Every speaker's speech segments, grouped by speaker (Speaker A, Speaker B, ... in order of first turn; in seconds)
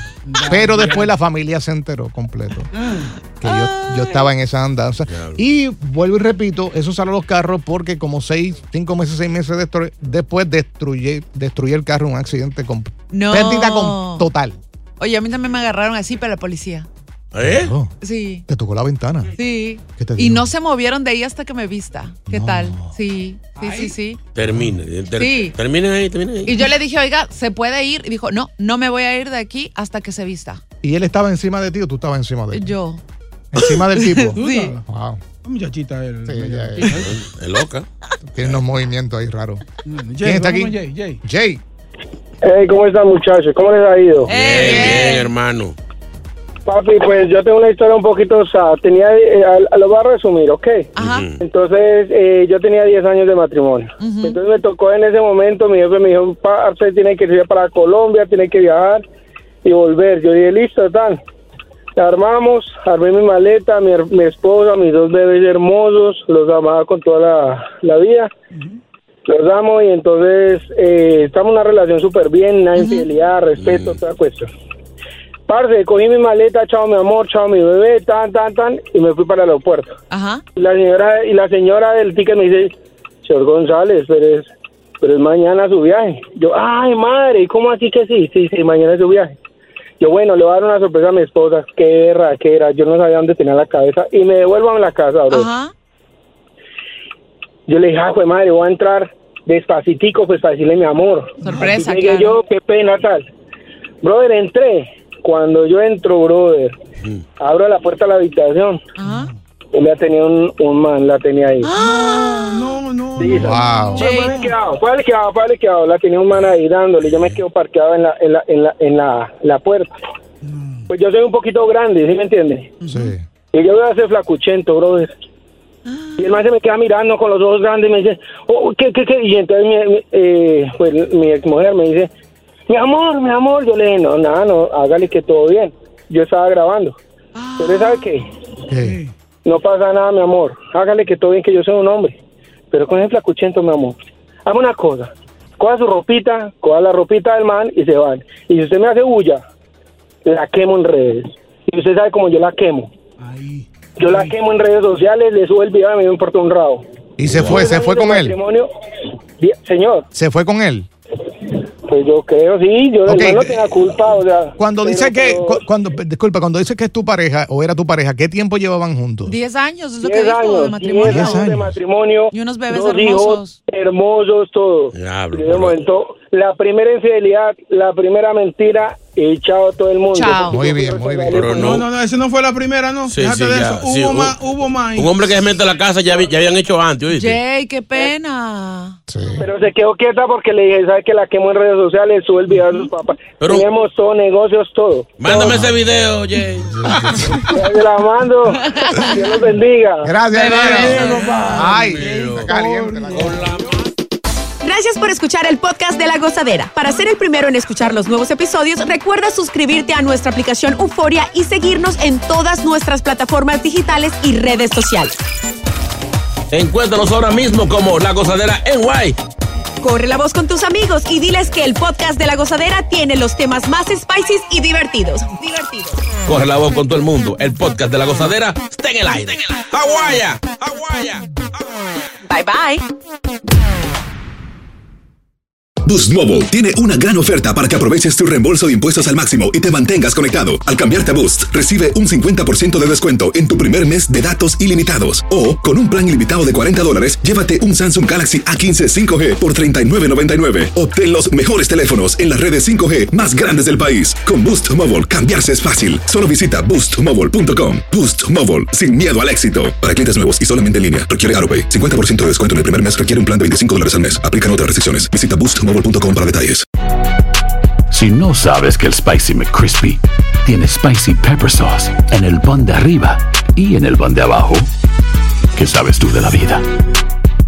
Speaker A: 0.3-1.1, 2.7-3.1, 23.6-23.9, 34.4-34.8, 35.5-37.1, 39.9-41.2, 68.5-68.8, 111.8-113.8, 120.4-120.9, 122.8-123.1, 138.8-139.1, 153.2-154.3, 181.5-185.2, 196.9-197.3, 200.5-203.6
Speaker B: 0.5-2.7, 3.4-14.6, 17.4-17.9, 18.5-19.4, 19.9-20.5, 22.3-22.9, 30.8-32.8, 33.5-35.2, 36.3-37.1, 38.3-39.6, 40.2-41.6, 113.2-114.1, 122.8-123.2, 138.7-139.0, 157.2-158.4, 160.1-160.9, 163.1-163.8, 164.6-169.4, 171.0-171.8, 180.5-181.8, 189.1-189.5, 195.4-195.7, 196.7-197.5, 200.0-203.5
Speaker C: 3.4-4.3, 13.1-14.2, 15.0-16.9, 18.0-18.4, 19.4-24.2, 25.2-25.6, 26.5-30.6, 32.5-33.0, 34.0-34.8, 44.3-45.3, 51.0-51.3, 54.0-54.4, 72.8-73.1, 80.1-80.4, 95.3-95.7, 101.4-102.4, 109.0-109.3, 111.6-112.7, 113.9-114.5, 125.9-126.3, 137.4-138.1, 169.2-171.5, 172.3-173.6, 180.1-180.6, 187.1-189.0, 198.6-199.1, 200.3-201.6
Speaker D: 5.1-5.4, 17.3-17.7, 24.4-26.6, 37.0-37.9, 44.3-45.8, 51.0-51.4, 73.6-74.0, 117.1-117.4, 157.3-157.7, 174.9-175.8, 181.3-181.8, 183.1-184.3, 185.0-187.4, 193.4-193.7, 195.2-196.9, 200.9-202.5, 203.1-203.7, 216.5-219.2, 226.3-231.3
Speaker E: 42.4-44.3, 46.7-50.9, 51.4-59.0, 59.6-61.2, 62.0-68.3, 69.3-74.5, 75.5-80.0, 80.6-84.5, 85.0-89.3, 90.0-95.5, 97.7-103.2, 104.0-106.8, 107.4-108.8, 109.7-111.7, 113.2-119.9, 120.9-122.8, 123.5-125.1, 126.2-132.1, 132.7-137.0, 137.6-138.3, 139.4-142.2, 142.7-149.4, 150.2-152.9, 154.0-156.8, 157.4-158.7, 159.4-160.1, 161.9-165.6, 170.0-181.8, 189.4-195.2, 197.5-200.1
Speaker F: 204.6-215.2, 219.8-226.0, 232.3-232.8
Speaker G: 235.8-266.7
Speaker H: 267.9-274.7, 275.6-276.6